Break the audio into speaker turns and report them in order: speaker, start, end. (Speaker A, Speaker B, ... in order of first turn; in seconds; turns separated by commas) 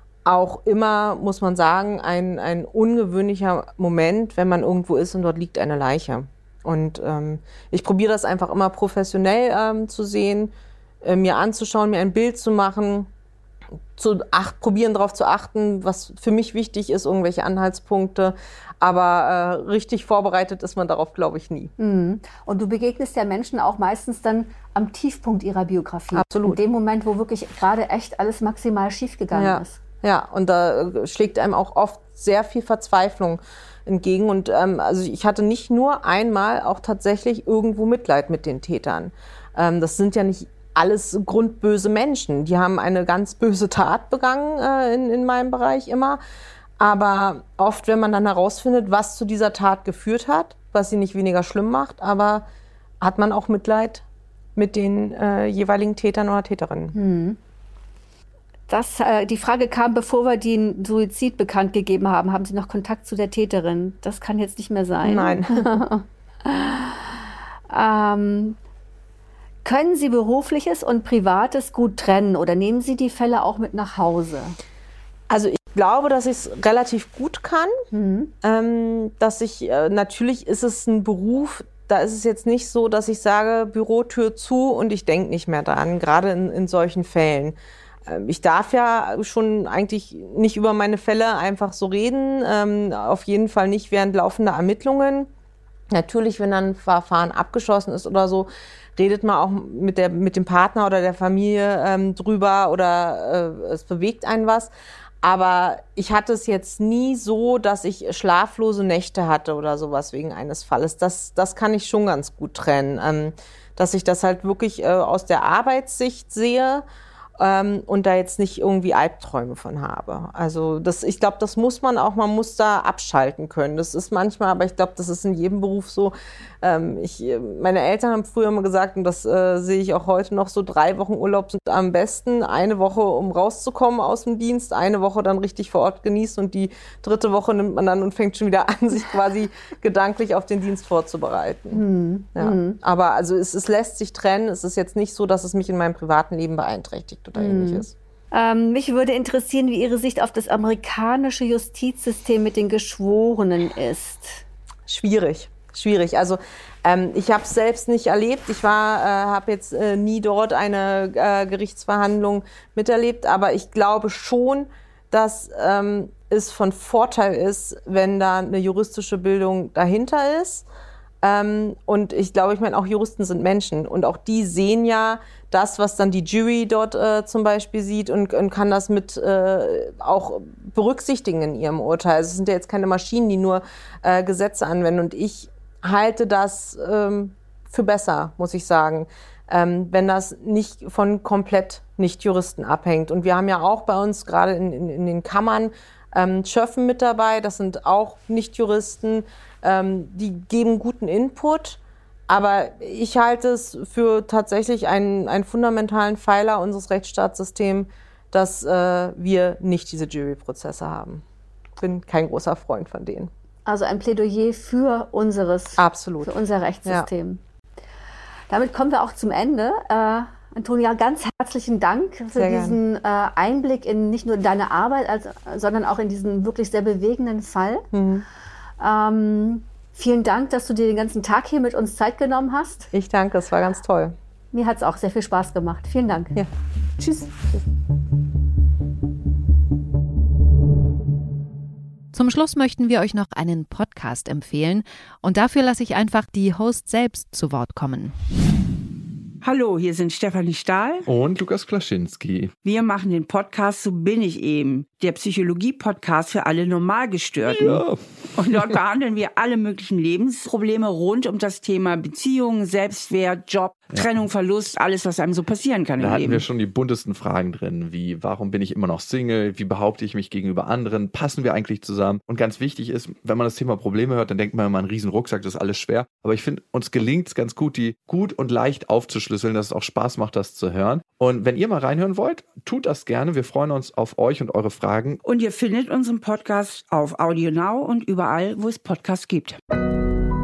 Speaker A: 0.2-13.1, Speaker A: 14.0-21.7, Speaker B: 21.8-29.8, Speaker A: 26.1-26.6, Speaker A: 29.3-46.2, Speaker A: 46.8-52.5, Speaker A: 53.0-54.0, Speaker A: 54.6-57.0, Speaker B: 57.0-57.4, Speaker B: 58.7-68.6, Speaker A: 65.0-65.8, Speaker B: 69.6-74.6, Speaker A: 75.3-77.8, Speaker B: 77.9-78.3, Speaker A: 78.4-95.3, Speaker A: 95.9-116.8, Speaker A: 117.4-141.8, Speaker B: 141.7-142.8, Speaker A: 142.3-147.9, Speaker B: 147.4-154.4, Speaker A: 154.9-170.7, Speaker A: 171.2-211.2, Speaker A: 211.8-213.3, Speaker B: 213.7-217.4, Speaker A: 215.8-217.1, Speaker B: 218.5-227.9, Speaker A: 222.3-222.8, Speaker A: 227.9-228.3, Speaker B: 228.8-232.9, Speaker A: 232.9-234.2, Speaker B: 234.5-236.4, Speaker A: 236.3-237.6, Speaker C: 242.1-248.2, Speaker D: 249.4-251.1, Speaker E: 251.1-252.5, Speaker D: 252.6-257.8, Speaker E: 257.5-258.0, Speaker D: 258.4-266.5, Speaker E: 266.0-285.2, Speaker D: 285.2-289.6